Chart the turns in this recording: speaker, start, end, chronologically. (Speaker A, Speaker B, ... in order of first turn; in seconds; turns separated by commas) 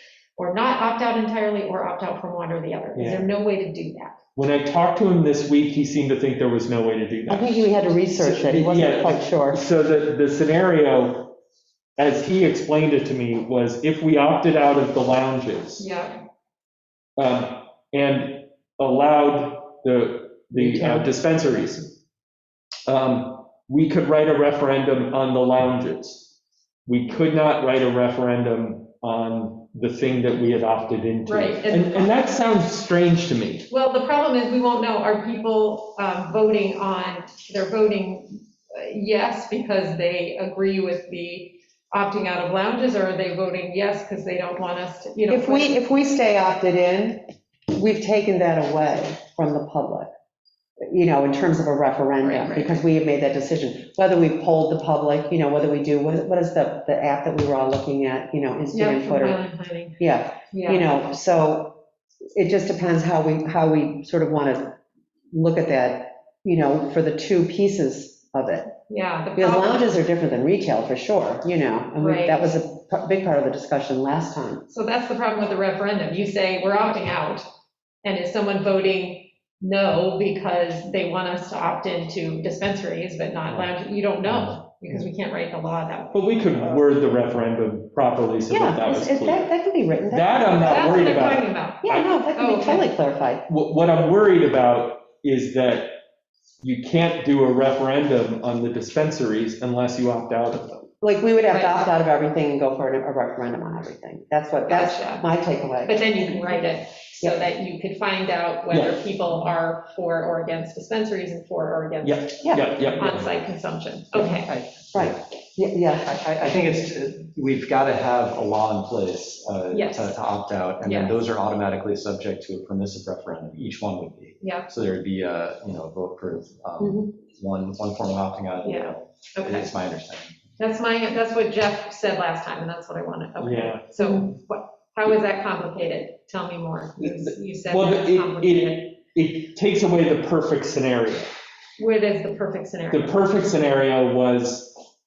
Speaker A: 0.3-4.2, Speaker B: 2.9-3.3, Speaker B: 4.3-11.3, Speaker C: 7.3-9.6, Speaker B: 12.0-15.8, Speaker A: 15.8-16.2, Speaker B: 17.2-21.9, Speaker B: 22.9-26.3, Speaker B: 26.9-33.7, Speaker A: 31.3-32.2, Speaker A: 33.7-45.8, Speaker C: 45.3-47.2, Speaker C: 47.7-50.1, Speaker C: 50.8-59.4, Speaker A: 52.2-52.8, Speaker A: 58.7-60.0, Speaker C: 60.0-61.8, Speaker A: 60.5-60.8, Speaker C: 62.3-64.8, Speaker C: 65.3-68.7, Speaker A: 68.9-69.9, Speaker C: 69.3-74.6, Speaker A: 72.0-72.5, Speaker A: 74.7-77.5, Speaker A: 78.0-86.2, Speaker B: 84.2-85.0, Speaker B: 86.1-89.5, Speaker C: 88.5-91.3, Speaker B: 90.1-92.2, Speaker A: 90.6-92.9, Speaker C: 91.8-93.4, Speaker B: 93.5-95.9, Speaker B: 96.6-100.9, Speaker C: 101.0-106.0, Speaker A: 101.5-101.8, Speaker A: 104.7-105.2, Speaker A: 105.8-114.5, Speaker B: 108.7-109.0, Speaker B: 112.0-113.3, Speaker D: 114.5-115.2, Speaker C: 114.9-116.2, Speaker D: 116.0-130.4, Speaker A: 119.7-120.2, Speaker A: 120.8-121.1, Speaker A: 124.4-124.7, Speaker C: 126.8-127.1, Speaker A: 128.6-129.7, Speaker A: 130.6-138.9, Speaker B: 133.4-133.8, Speaker C: 134.0-134.2, Speaker B: 137.0-141.3, Speaker A: 141.8-143.2, Speaker B: 142.9-144.7